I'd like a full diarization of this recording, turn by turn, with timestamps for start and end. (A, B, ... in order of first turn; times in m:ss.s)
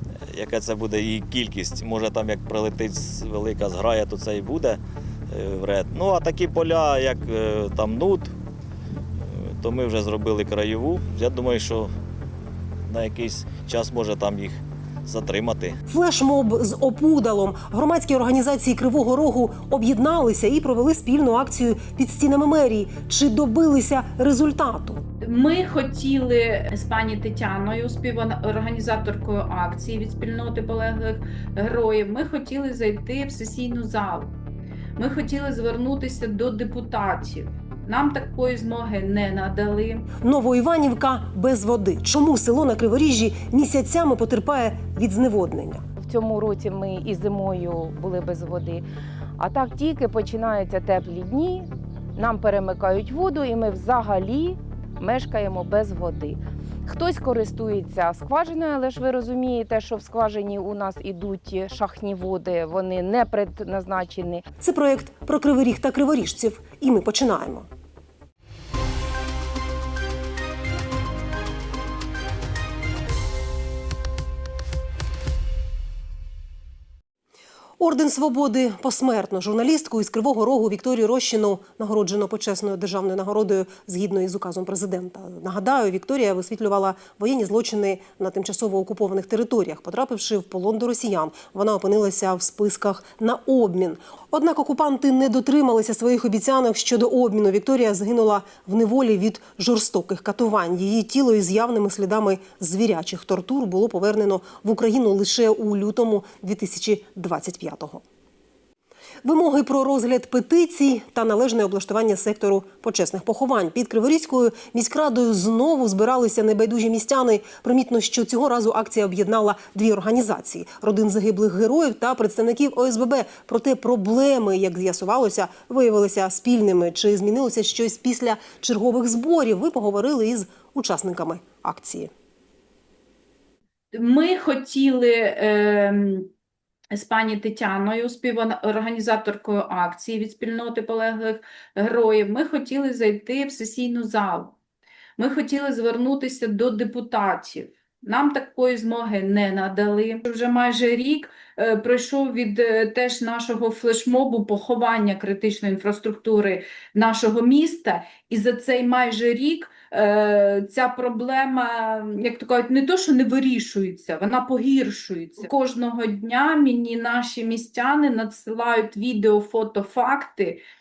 0:00.3-0:04.8 A
0:05.3-0:08.3 A
0:09.4-0:11.9 A
0:12.9-0:15.8 A
0:15.9-0:25.0 B
0:25.2-0:34.3 C
0:35.0-0:40.1 C
0:40.2-0:45.8 B
0:46.0-0:48.8 D
0:49.4-1:04.4 D
1:04.6-1:07.7 B
1:17.8-1:48.0 B
1:49.2-2:12.1 B
2:13.9-2:16.3 C
2:16.9-2:24.6 C
2:25.2-2:50.6 C